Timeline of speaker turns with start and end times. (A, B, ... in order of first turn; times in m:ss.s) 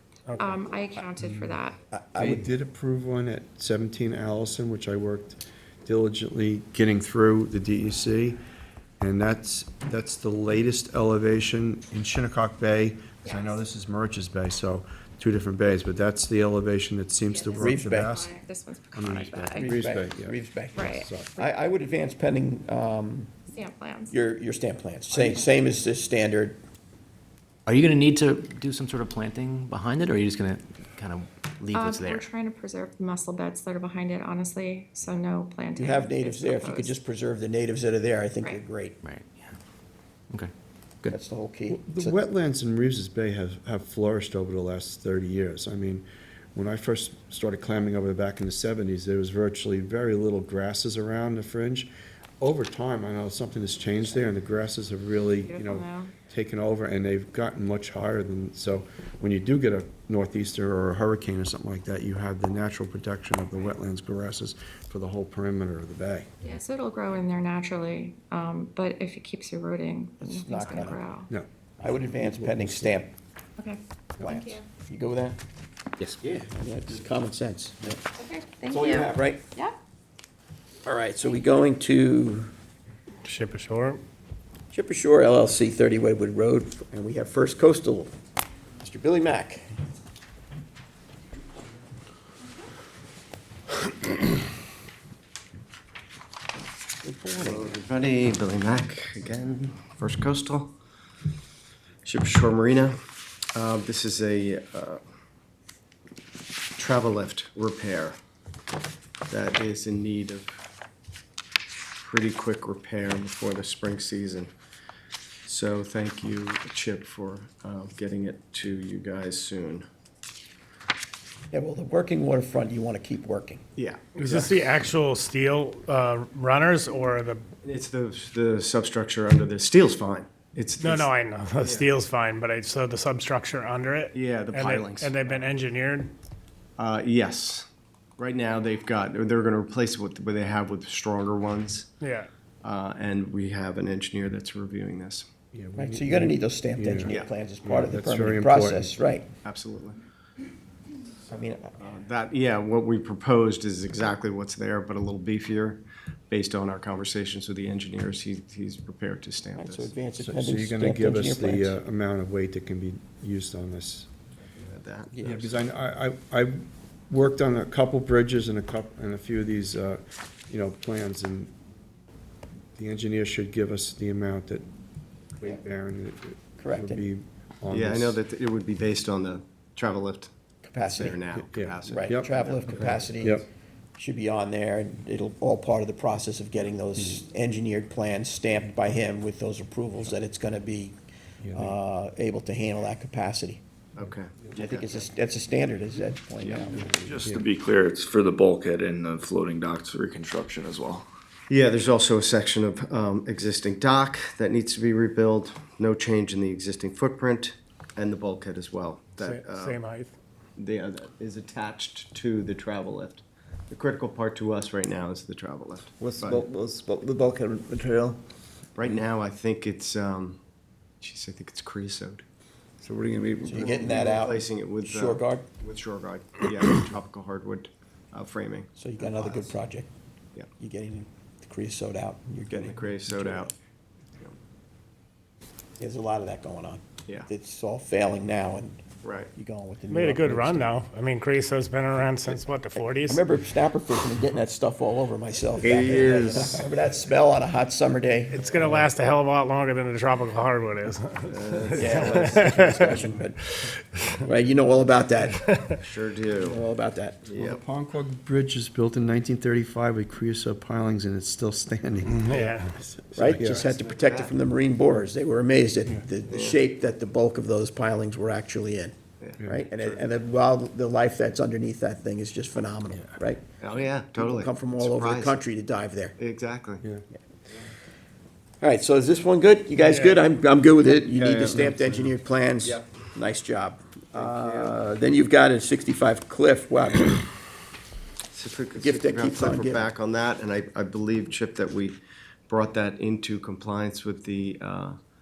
0:00.3-0:00.6 A
0:00.4-0:01.8 B
0:01.2-0:01.6 C
0:01.9-0:02.5 D
0:02.2-0:08.4 C
0:09.0-0:18.3 C
0:13.2-0:13.6 B
0:17.3-0:19.7 B
0:17.6-0:18.1 D
0:19.0-0:21.3 C
0:19.6-0:23.3 D
0:20.8-0:21.5 B
0:23.5-0:24.1 B
0:24.1-0:26.6 D
0:27.7-0:32.3 E
0:31.7-0:37.0 B
0:35.8-0:39.0 D
0:39.0-0:39.6 E
0:41.1-0:42.2 D
0:41.7-1:06.3 C
0:55.4-0:56.1 B
1:06.4-1:11.3 B
1:10.2-1:11.0 D
1:11.3-1:12.9 C
1:11.8-1:13.1 D
1:13.6-1:14.6 B
1:14.2-1:15.4 D
1:16.2-1:18.0 D
1:18.1-1:19.7 B
1:18.7-1:19.4 D
1:20.8-1:22.5 D
1:23.2-1:24.0 A
1:24.7-1:28.1 D
1:28.8-1:29.7 D
1:37.0-1:37.8 D
1:37.4-1:40.7 F
1:42.0-1:43.0 F
1:43.5-1:45.0 F
1:46.8-1:48.2 F
1:49.3-1:50.6 F
1:52.0-1:54.5 F
1:55.4-1:59.8 F
2:01.5-2:03.6 D
2:03.8-2:04.3 F
2:04.2-2:07.4 A
2:07.6-2:11.1 F
2:10.8-2:16.1 A
2:11.6-2:11.9 F
2:14.1-2:15.5 F
2:16.8-2:17.7 F
2:18.2-2:21.9 F
2:22.0-2:22.3 A
2:22.6-2:25.3 F
2:25.5-2:29.0 C
2:25.8-2:29.3 D
2:27.1-2:27.3 F
2:29.4-2:30.0 F
2:31.3-2:31.8 D
2:31.8-2:39.9 F
2:39.6-2:41.8 D
2:40.2-2:44.1 C
2:44.6-2:45.2 F
2:45.1-2:45.6 D
2:45.2-2:51.5 C
2:52.8-2:54.7 C
2:55.4-2:58.2 C
2:56.6-2:57.0 D
2:57.7-3:03.0 F
3:00.6-3:01.2 D
3:01.3-3:02.3 C
3:01.9-3:03.4 D
3:04.0-3:10.9 D
3:11.4-3:11.8 C
3:11.5-3:13.6 D
3:14.0-3:14.9 F
3:14.6-3:17.1 D
3:16.4-3:16.8 F
3:16.8-3:17.5 C
3:17.0-3:21.1 G
3:21.5-3:29.8 F
3:29.2-3:30.2 A
3:30.6-3:36.4 F
3:36.0-3:38.2 H
3:38.8-3:40.4 F
3:41.0-3:42.2 F
3:42.8-3:44.2 H
3:43.4-3:45.5 D
3:43.6-3:49.5 F
3:48.8-3:49.9 D
3:50.6-3:53.5 D
3:52.5-3:53.5 F
3:55.8-4:00.8 D
3:59.0-3:59.3 F
3:59.9-4:03.2 A
4:02.8-4:08.4 D
4:05.9-4:06.2 H
4:08.3-4:13.0 A
4:11.3-4:13.2 F
4:11.8-4:13.6 D
4:14.3-4:15.4 D
4:15.4-4:15.8 A
4:15.8-4:16.6 F
4:16.4-4:17.2 D
4:17.3-4:17.6 F
4:17.4-4:23.6 C
4:22.1-4:22.8 A
4:23.1-4:28.9 D
4:23.4-4:24.3 F
4:26.3-4:26.6 F
4:29.2-4:30.1 F
4:29.5-4:33.4 D
4:33.6-4:35.4 F
4:34.1-4:36.1 D
4:36.2-4:36.8 F
4:38.6-4:47.2 D
4:39.8-4:40.2 A
4:41.1-4:41.7 F
4:41.6-4:42.1 C
4:44.1-4:44.8 F
4:48.3-4:52.0 F
4:48.8-4:49.9 D
4:52.5-4:55.0 F